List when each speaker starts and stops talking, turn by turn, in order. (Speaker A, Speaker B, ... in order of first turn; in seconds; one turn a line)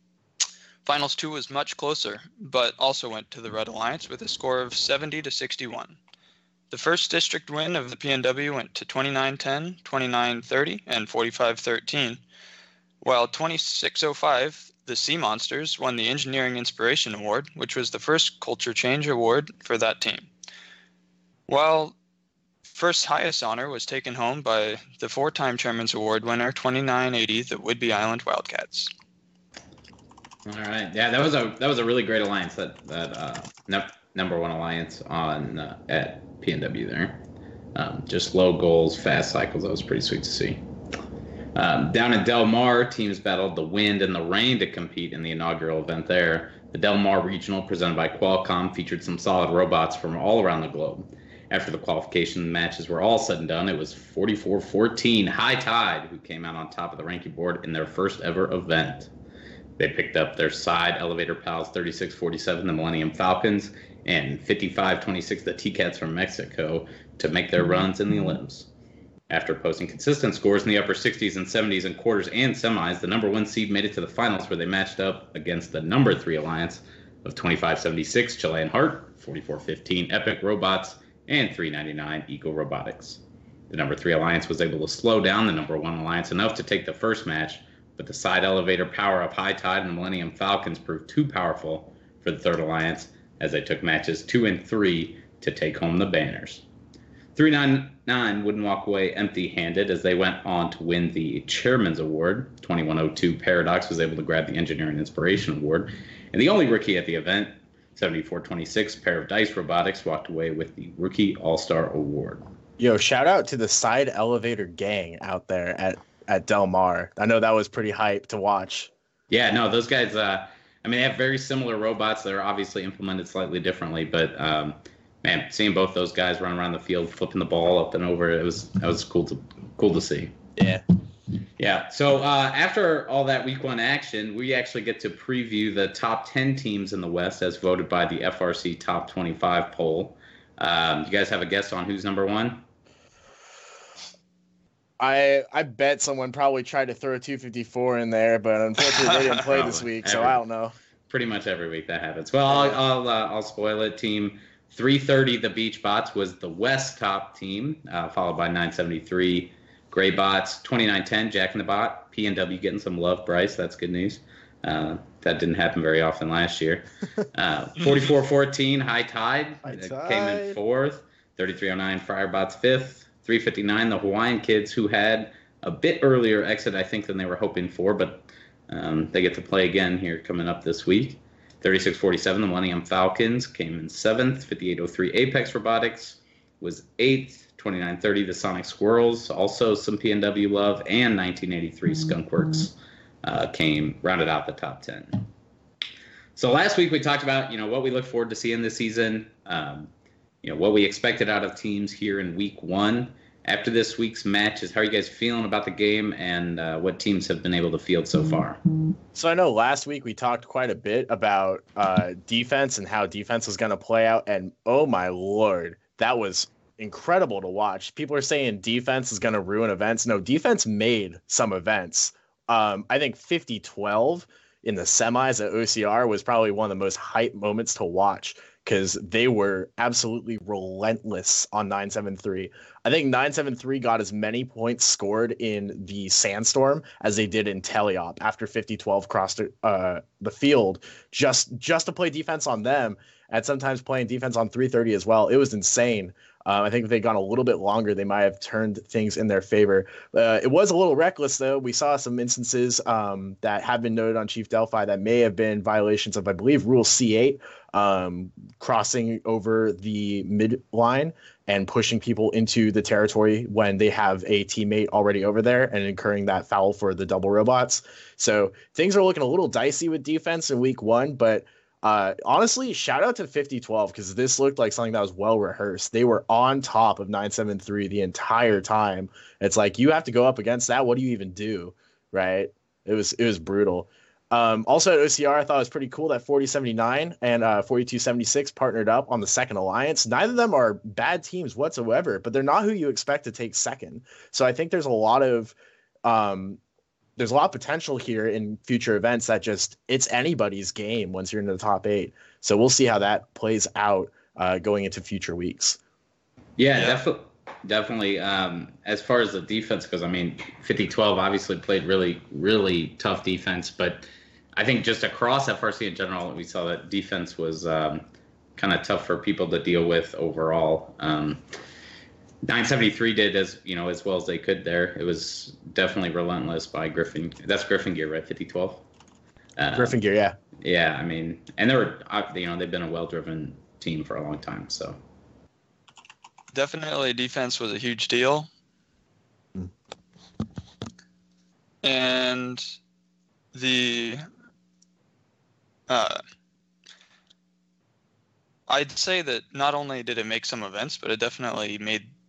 Speaker A: 0.8-6.0
Speaker A: 6.7-12.2
Speaker A: 13.0-20.3
Speaker A: 21.5-21.9
Speaker A: 22.6-28.9
Speaker B: 30.4-37.2
Speaker B: 37.7-40.6
Speaker B: 41.5-59.1
Speaker B: 59.8-68.7
Speaker B: 69.3-96.6
Speaker B: 97.3-112.4
Speaker C: 112.8-118.9
Speaker B: 119.3-130.3
Speaker C: 130.6-130.8
Speaker B: 131.6-142.6
Speaker C: 145.0-150.7
Speaker B: 149.3-150.4
Speaker B: 151.1-195.3
Speaker C: 152.5-152.8
Speaker C: 169.6-170.6
Speaker B: 196.3-199.9
Speaker B: 200.4-208.6
Speaker C: 209.1-296.6
Speaker C: 297.2-305.8
Speaker B: 306.6-318.0
Speaker A: 306.7-307.0
Speaker B: 318.6-321.4
Speaker B: 322.4-328.8
Speaker B: 329.6-330.0
Speaker C: 329.7-330.4
Speaker B: 330.6-335.0
Speaker A: 336.5-338.5
Speaker A: 341.8-342.6
Speaker A: 343.5-344.2
Speaker A: 345.9-346.2
Speaker A: 348.7-352.1